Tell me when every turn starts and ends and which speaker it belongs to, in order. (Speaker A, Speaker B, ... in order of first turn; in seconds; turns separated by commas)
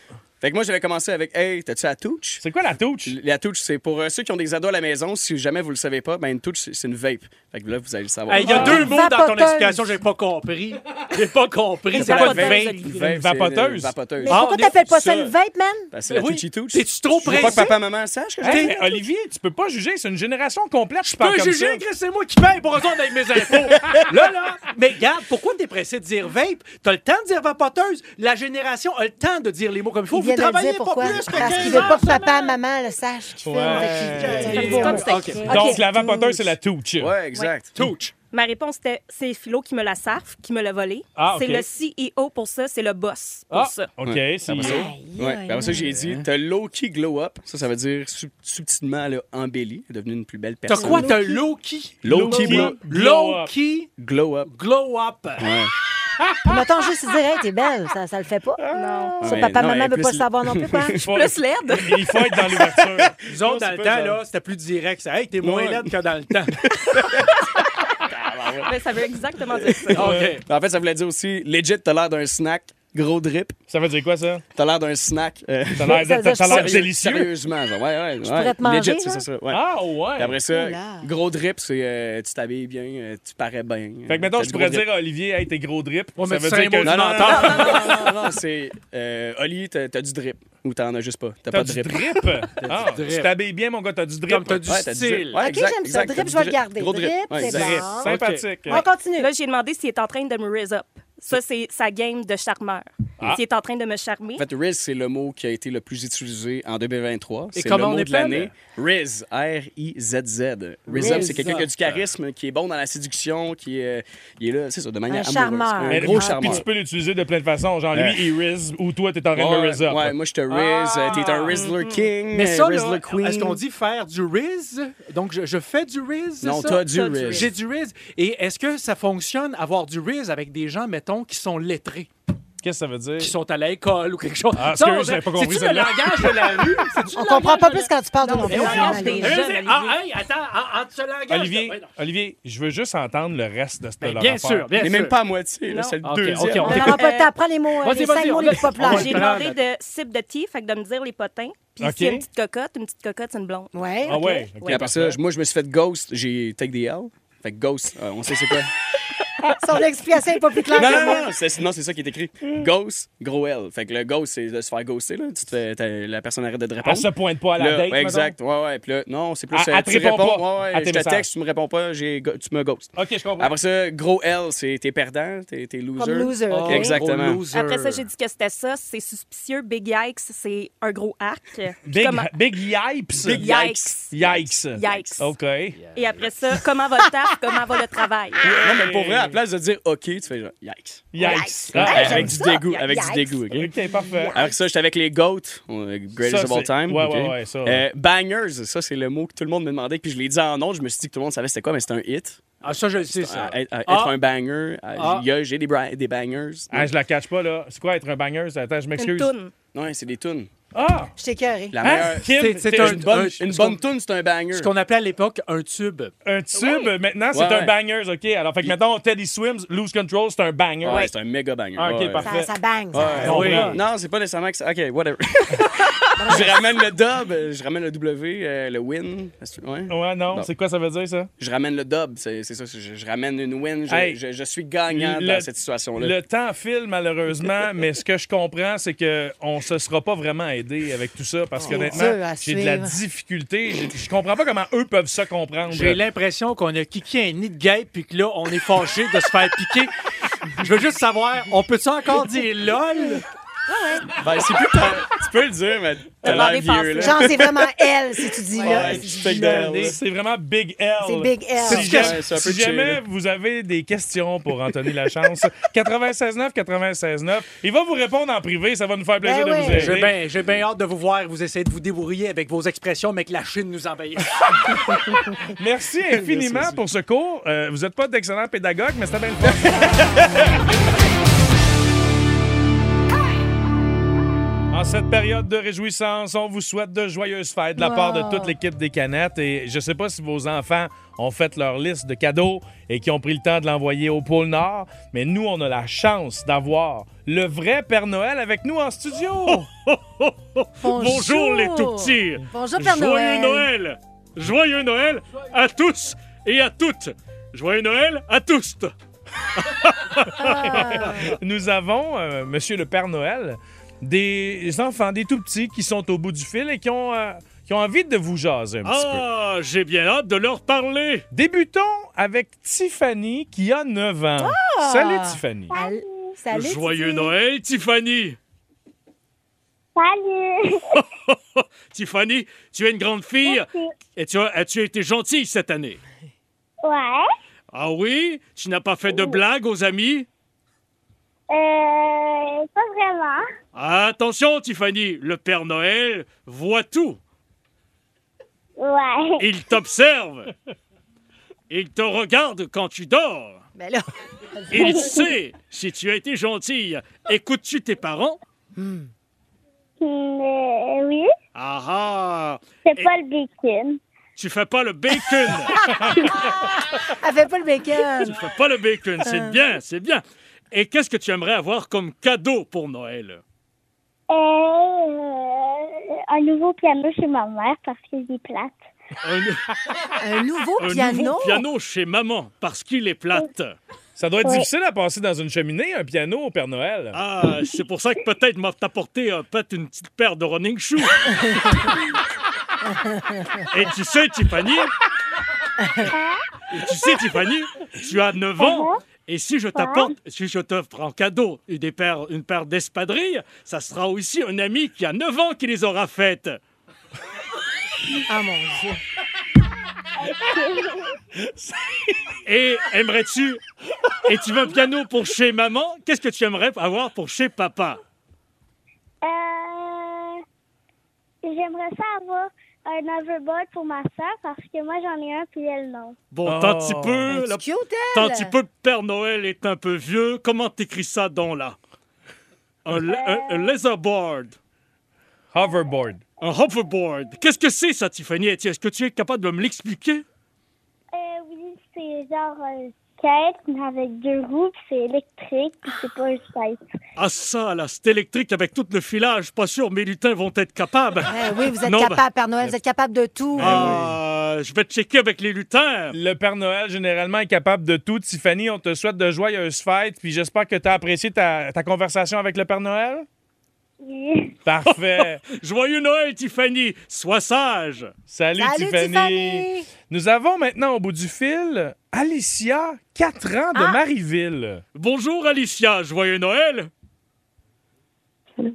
Speaker A: 0.4-2.4, Speaker B: 2.4-3.1, Speaker A: 3.0-8.9, Speaker C: 8.3-12.9, Speaker B: 8.4-8.9, Speaker D: 8.4-9.9, Speaker E: 11.9-12.9, Speaker A: 11.9-15.3, Speaker B: 12.9-13.9, Speaker D: 14.2-15.9, Speaker C: 14.3-14.8, Speaker A: 15.9-18.7, Speaker C: 16.1-17.7, Speaker B: 18.4-21.8, Speaker C: 18.4-19.0, Speaker C: 21.0-32.6, Speaker D: 30.1-36.5, Speaker B: 31.4-31.8, Speaker B: 33.4-37.1, Speaker C: 33.6-35.8, Speaker E: 34.6-35.1, Speaker A: 37.0-37.8, Speaker C: 37.7-38.1, Speaker E: 38.3-43.9, Speaker B: 41.1-41.6, Speaker B: 43.5-44.9, Speaker A: 44.0-51.2, Speaker D: 44.6-45.9, Speaker C: 50.6-53.9, Speaker D: 50.7-51.5, Speaker A: 52.0-52.8, Speaker B: 52.0-53.5, Speaker A: 54.0-54.5, Speaker C: 54.5-55.5, Speaker A: 55.4-55.7, Speaker D: 56.5-58.6, Speaker E: 58.7-59.3, Speaker D: 59.2-60.9, Speaker A: 59.2-61.0, Speaker B: 61.0-64.2, Speaker E: 61.1-61.9, Speaker A: 62.5-63.1, Speaker C: 63.3-66.6, Speaker A: 65.4-65.9, Speaker A: 66.7-67.3, Speaker A: 68.0-68.7, Speaker E: 68.7-70.0, Speaker A: 69.5-73.6, Speaker C: 69.9-70.4, Speaker B: 70.0-70.3, Speaker B: 73.7-74.4, Speaker A: 74.5-79.6, Speaker B: 75.8-77.3, Speaker D: 75.9-76.9, Speaker D: 78.2-79.2, Speaker B: 79.5-80.3, Speaker A: 80.2-84.9, Speaker D: 80.5-81.1, Speaker B: 84.1-87.7, Speaker C: 86.2-88.1, Speaker A: 86.8-92.0, Speaker B: 91.5-94.7, Speaker C: 92.6-93.3, Speaker C: 94.3-95.4, Speaker A: 94.6-97.9, Speaker D: 95.3-98.1, Speaker C: 97.4-98.5, Speaker B: 97.5-98.8, Speaker D: 98.7-99.3, Speaker E: 99.2-104.4, Speaker A: 104.3-116.7, Speaker C: 107.5-108.5, Speaker C: 110.9-111.9, Speaker B: 111.0-111.6, Speaker D: 115.1-116.6, Speaker B: 115.9-121.5, Speaker A: 117.9-118.3, Speaker A: 119.3-123.6, Speaker E: 121.5-122.1, Speaker C: 122.3-132.1, Speaker A: 126.4-127.5, Speaker E: 126.5-127.5, Speaker B: 132.6-133.3, Speaker C: 133.2-137.9, Speaker B: 134.6-136.6, Speaker D: 137.1-139.4, Speaker E: 138.2-139.9, Speaker C: 138.4-141.9, Speaker B: 141.3-144.8, Speaker C: 144.0-145.1, Speaker A: 144.8-146.9, Speaker E: 145.7-145.9, Speaker C: 146.0-147.0, Speaker E: 146.6-147.3, Speaker D: 146.6-149.3, Speaker C: 147.8-149.6, Speaker E: 148.8-153.7, Speaker B: 151.8-152.2, Speaker D: 153.7-154.5, Speaker B: 154.0-155.2, Speaker A: 154.6-158.7, Speaker D: 159.6-161.3, Speaker A: 160.7-177.4, Speaker B: 166.8-168.3, Speaker B: 169.5-171.3, Speaker B: 172.9-173.5, Speaker D: 176.0-177.0, Speaker C: 176.5-178.1, Speaker E: 177.5-182.3, Speaker B: 181.9-185.8, Speaker A: 183.2-185.2, Speaker E: 183.4-185.3, Speaker C: 185.7-186.5, Speaker E: 185.9-188.4, Speaker B: 188.4-189.4, Speaker A: 188.5-191.1, Speaker B: 191.1-192.4, Speaker D: 191.2-193.4, Speaker A: 191.7-193.7, Speaker B: 193.5-194.3, Speaker D: 194.1-194.6, Speaker A: 194.3-206.9, Speaker B: 196.2-197.8, Speaker C: 202.6-204.1, Speaker C: 204.9-205.2, Speaker B: 206.7-209.3, Speaker E: 209.0-209.5, Speaker A: 209.7-210.5, Speaker B: 210.7-211.1, Speaker D: 211.2-211.8, Speaker A: 211.7-214.7, Speaker B: 211.8-213.1, Speaker C: 212.2-213.8, Speaker C: 214.5-216.1, Speaker B: 216.2-221.1, Speaker A: 217.3-217.7, Speaker A: 220.8-222.3, Speaker B: 221.8-223.8, Speaker D: 222.2-223.6, Speaker A: 222.9-230.5, Speaker C: 223.2-223.8, Speaker D: 226.2-226.6, Speaker B: 229.9-231.3, Speaker A: 231.4-236.2, Speaker B: 233.9-234.2, Speaker B: 234.9-246.0, Speaker D: 241.6-242.9, Speaker C: 245.7-249.9, Speaker C: 250.6-253.2, Speaker D: 253.7-254.0, Speaker A: 254.2-258.0, Speaker E: 256.2-257.3, Speaker D: 257.0-259.9, Speaker A: 258.6-260.0, Speaker C: 258.6-259.9, Speaker B: 259.7-270.2, Speaker D: 261.0-262.1, Speaker C: 261.6-262.2, Speaker A: 261.9-263.0, Speaker D: 269.2-269.9, Speaker C: 269.7-274.5, Speaker B: 275.5-280.5, Speaker A: 276.2-276.8, Speaker B: 284.7-299.6, Speaker D: 287.8-288.6, Speaker F: 299.4-308.9, Speaker D: 300.8-303.7, Speaker F: 309.6-311.3, Speaker D: 310.4-311.3, Speaker B: 310.7-319.3, Speaker F: 318.8-321.2, Speaker B: 321.3-325.7, Speaker D: 324.4-327.3, Speaker G: 325.7-326.3, Speaker F: 326.5-328.4, Speaker G: 329.9-330.8, Speaker F: 330.9-336.0, Speaker G: 333.4-333.9, Speaker G: 336.8-337.2, Speaker F: 337.7-340.3, Speaker G: 339.1-339.4, Speaker G: 341.5-343.4, Speaker F: 343.7-347.2, Speaker G: 348.8-349.5, Speaker F: 349.4-350.5, Speaker F: 351.7-353.6, Speaker D: 353.8-354.1, Speaker D: 354.6-355.2, Speaker F: 354.7-358.4, Speaker D: 358.8-359.1, Speaker G: 360.0-361.3, Speaker F: 361.5-363.1, Speaker G: 362.8-364.0, Speaker F: 364.4-366.5, Speaker D: 365.9-368.4, Speaker F: 368.2-373.4, Speaker D: 369.2-369.6, Speaker G: 374.3-378.8, Speaker F: 379.2-379.6, Speaker D: 380.2-381.6, Speaker F: 380.8-383.8, Speaker B: 384.1-387.2, Speaker G: 384.4-384.7, Speaker F: 387.1-391.3, Speaker F: 393.7-394.9, Speaker G: 396.1-396.4, Speaker F: 396.7-406.6, Speaker G: 398.6-399.0, Speaker G: 399.8-400.1, Speaker D: 408.3-409.0, Speaker G: 410.2-411.1, Speaker B: 411.6-412.0, Speaker F: 412.4-413.6, Speaker F: 414.2-418.0, Speaker G: 419.2-420.4, Speaker G: 421.4-426.1, Speaker F: 426.3-431.8, Speaker B: 426.4-427.3, Speaker D: 427.3-428.5, Speaker F: 432.8-434.6, Speaker G: 433.1-433.7, Speaker B: 435.5-436.2, Speaker F: 436.4-440.2, Speaker G: 441.1-446.8, Speaker F: 447.1-452.2, Speaker D: 451.3-454.0, Speaker F: 453.5-456.1, Speaker B: 453.6-454.0, Speaker B: 456.1-463.2, Speaker G: 464.0-464.5, Speaker B: 464.6-465.4, Speaker F: 464.9-468.1, Speaker B: 468.3-474.8, Speaker D: 468.6-469.9, Speaker D: 473.7-474.0, Speaker F: 474.9-476.9